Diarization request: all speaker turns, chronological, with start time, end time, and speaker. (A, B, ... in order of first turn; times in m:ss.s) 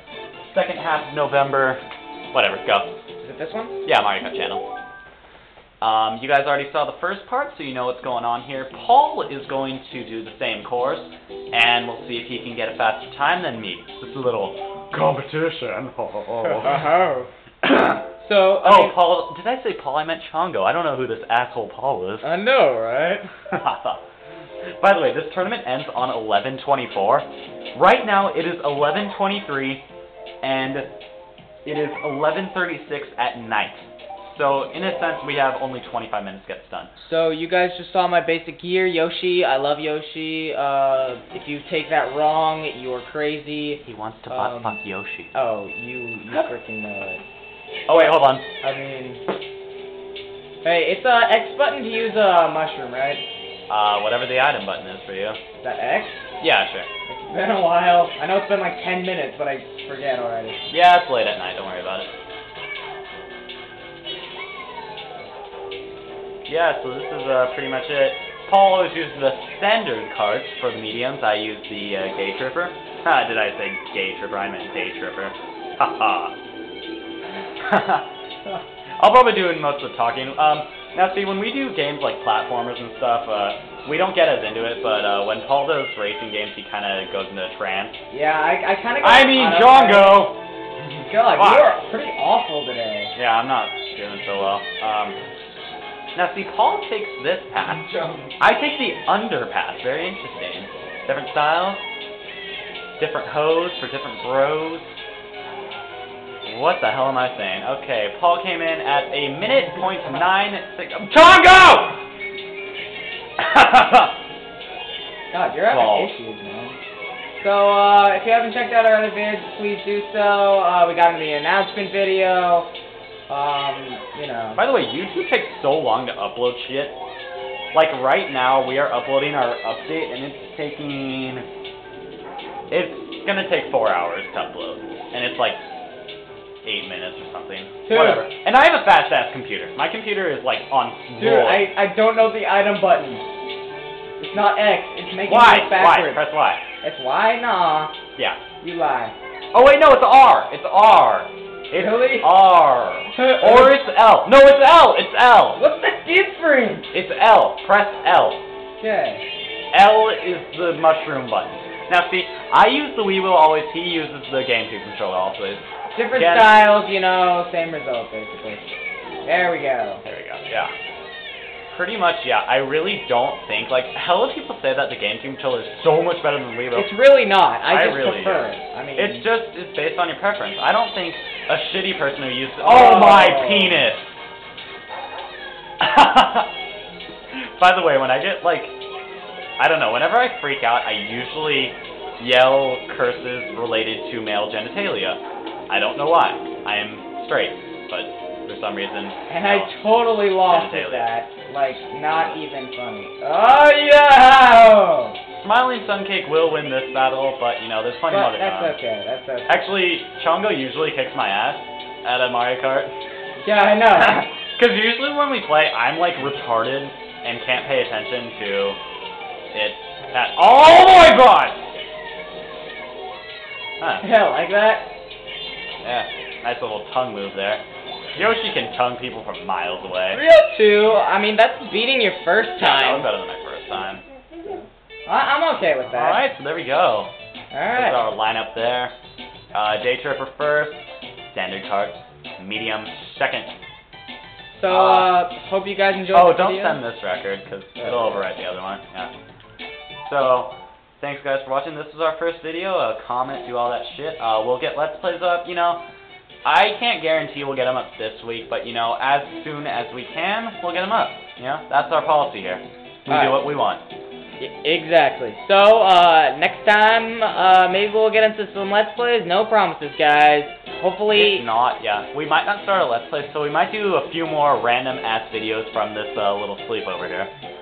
0:00.4-0:01.8 A
0:02.3-0:02.9 A
0:03.2-0:03.8 B
0:03.8-0:04.6 A
0:05.8-0:16.8 A
0:16.6-0:17.3 B
0:17.6-0:18.0 A
0:18.2-0:19.0 B
0:18.6-0:22.3 A
0:22.2-0:23.3 B
0:23.5-0:24.0 A
0:24.8-0:29.8 A
0:30.4-0:30.9 A
0:31.6-0:36.9 A
0:37.0-0:44.8 B
0:43.8-0:45.3 A
0:45.3-0:47.2 B
0:47.9-0:48.5 A
0:47.9-0:49.2 B
0:50.6-0:53.2 B
0:53.7-0:55.4 A
0:55.6-0:56.3 B
0:56.4-0:56.9 A
0:57.1-1:00.6 B
1:00.7-1:02.1 A
1:06.5-1:16.4 A
1:17.6-1:28.0 A
1:28.1-1:30.3 B
1:29.0-1:30.4 A
1:31.1-1:33.1 B
1:31.3-1:31.8 A
1:33.1-1:35.2 A
1:36.1-1:37.9 A
1:37.9-1:38.3 B
1:38.4-1:41.8 A
1:43.0-1:45.0 A
1:46.4-1:52.0 A
1:53.4-1:54.1 A
1:55.3-1:56.8 B
1:55.7-1:56.1 A
1:57.4-2:02.7 B
2:03.3-2:04.6 B
2:04.6-2:07.0 A
2:07.7-2:11.4 A
2:12.7-2:15.6 A
2:16.6-2:21.7 A
2:17.8-2:18.3 B
2:21.2-2:23.2 B
2:24.2-2:26.2 B
2:25.2-2:26.6 A
2:26.8-2:27.9 B
2:28.2-2:28.4 A
2:28.6-2:29.1 B
2:29.5-2:35.6 A
2:31.7-2:32.3 B
2:33.2-2:33.8 B
2:35.5-2:36.9 B
2:36.9-2:38.4 A
2:38.8-2:39.2 B
2:39.7-2:46.6 A
2:45.9-2:48.7 B
2:49.2-2:50.0 B
2:50.0-2:50.7 A
2:51.7-2:56.9 A
2:56.7-2:59.3 B
2:57.7-3:04.2 A
3:02.6-3:03.8 B
3:05.8-3:06.5 A
3:07.3-3:08.8 A
3:09.6-3:19.7 A
3:19.3-3:25.2 B
3:20.4-3:21.1 A
3:25.3-3:28.8 A
3:28.1-3:29.5 B
3:29.5-3:32.9 A
3:33.4-3:34.3 B
3:33.9-3:38.8 A
3:39.5-3:41.8 A
3:43.8-3:44.0 A
3:44.0-3:44.9 B
3:45.8-3:47.6 A
3:48.2-3:50.2 A
3:50.1-3:53.1 B
3:52.6-3:54.0 A
3:54.4-3:56.2 B
3:55.9-3:57.1 A
3:57.5-3:58.0 B
3:57.7-3:58.9 A
3:59.5-4:03.5 A
4:04.5-4:06.8 B
4:04.7-4:05.2 A
4:06.1-4:09.1 A
4:07.8-4:08.2 B
4:10.0-4:15.8 A
4:16.4-4:23.8 A
4:23.1-4:23.4 B
4:24.4-4:31.4 B
4:31.1-4:37.3 A